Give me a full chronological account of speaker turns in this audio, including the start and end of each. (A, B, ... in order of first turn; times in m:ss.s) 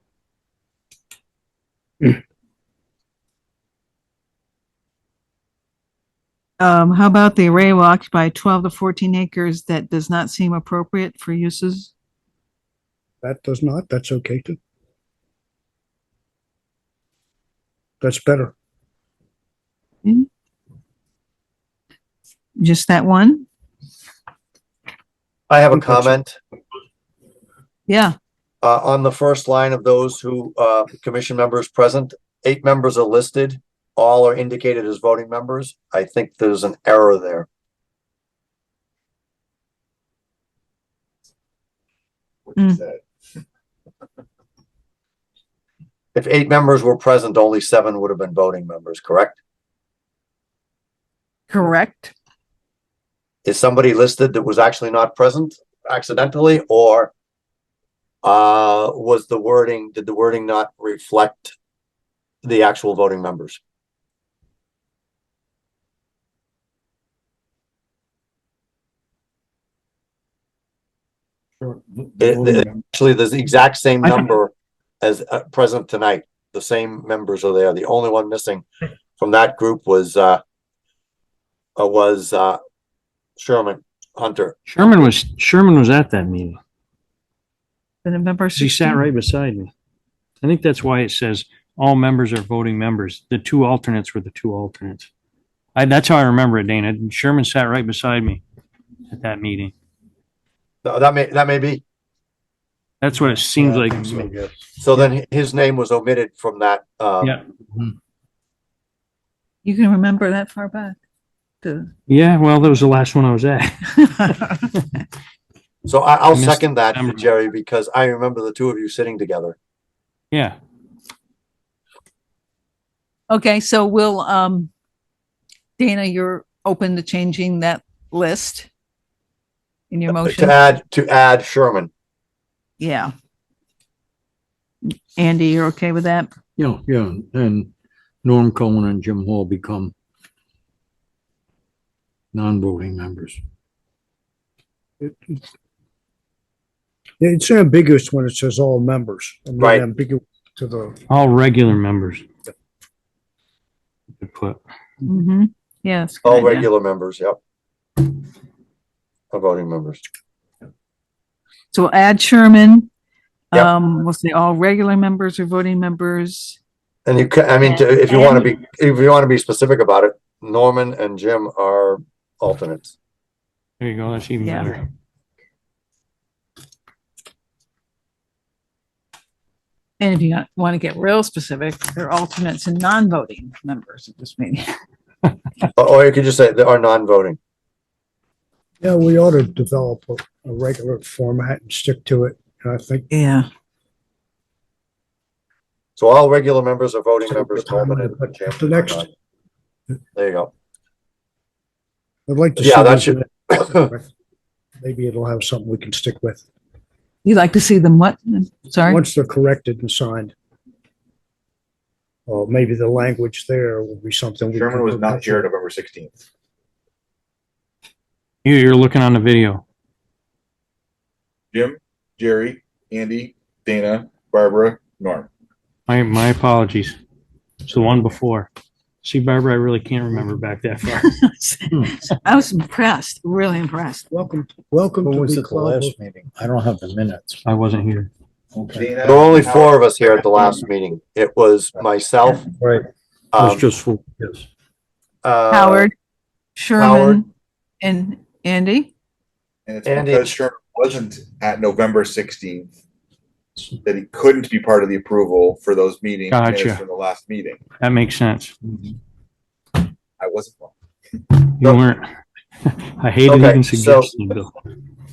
0:06.6-0:11.9 A
0:13.2-0:14.6 B
0:18.0-0:18.5 B
0:22.6-0:23.4 A
0:25.5-0:26.4 C
0:25.7-0:26.2 B
0:27.9-0:28.1 A
0:28.6-0:37.5 C
0:42.6-0:42.9 A
0:46.1-0:49.4 C
0:51.5-0:52.1 A
0:53.4-0:57.1 C
0:58.2-1:01.5 C
1:02.4-1:03.6 C
1:12.2-1:18.6 C
1:19.2-1:20.4 C
1:21.8-1:22.6 C
1:23.4-1:24.5 C
1:24.7-1:26.6 D
1:28.0-1:29.0 A
1:28.5-1:29.7 D
1:30.4-1:35.1 D
1:35.7-1:38.4 D
1:39.1-1:39.7 D
1:40.8-1:41.8 C
1:43.0-1:44.4 D
1:44.8-1:47.4 C
1:49.6-1:51.0 A
1:51.6-1:51.9 A
1:52.1-1:54.3 D
1:54.0-1:54.6 A
1:55.8-1:59.6 C
1:56.3-1:57.3 D
2:00.3-2:00.6 D
2:03.3-2:04.7 A
2:05.8-2:08.7 A
2:09.9-2:10.6 A
2:10.1-2:11.9 C
2:12.8-2:13.1 A
2:14.8-2:16.3 A
2:16.6-2:17.7 E
2:18.2-2:19.9 E
2:22.3-2:23.4 E
2:25.0-2:25.4 B
2:27.2-2:31.0 B
2:29.6-2:29.8 C
2:31.1-2:32.2 D
2:34.2-2:34.6 D
2:35.0-2:36.6 A
2:36.2-2:37.4 C
2:39.3-2:40.0 C
2:41.7-2:42.9 A
2:43.5-2:46.6 A
2:47.0-2:52.9 C
2:47.6-2:48.5 A
2:53.8-2:54.8 D
2:54.4-2:54.8 A
3:00.0-3:04.7 A
3:05.8-3:07.4 C
3:08.8-3:13.1 B
3:13.1-3:13.5 A
3:16.0-3:19.1 C
3:17.3-3:19.1 B
3:20.1-3:20.5 C
3:22.3-3:24.1 B
3:22.6-3:23.9 C
3:24.8-3:26.4 B
3:27.2-3:29.0 A
3:28.8-3:30.3 B
3:32.3-3:35.5 B
3:34.5-3:36.2 F
3:38.4-3:39.6 D
3:41.5-3:45.3 F
3:45.9-3:47.0 D
3:47.6-3:48.5 D
3:49.0-3:51.1 D
3:50.9-3:54.1 A
3:54.1-3:56.0 B
3:55.0-3:57.4 E
3:57.4-3:58.1 D
3:58.6-3:58.9 E
3:58.7-4:00.5 F
3:59.0-4:02.5 C
4:03.3-4:03.7 C
4:03.5-4:04.0 D
4:05.2-4:05.9 C
4:05.5-4:05.9 A
4:06.6-4:07.3 A
4:06.8-4:07.2 C
4:07.8-4:08.9 A
4:09.6-4:12.7 F
4:09.8-4:10.3 C
4:13.7-4:17.6 F
4:16.3-4:16.8 D
4:17.8-4:18.5 D
4:20.2-4:20.7 F
4:21.3-4:22.0 D
4:22.6-4:24.5 D
4:23.2-4:24.2 C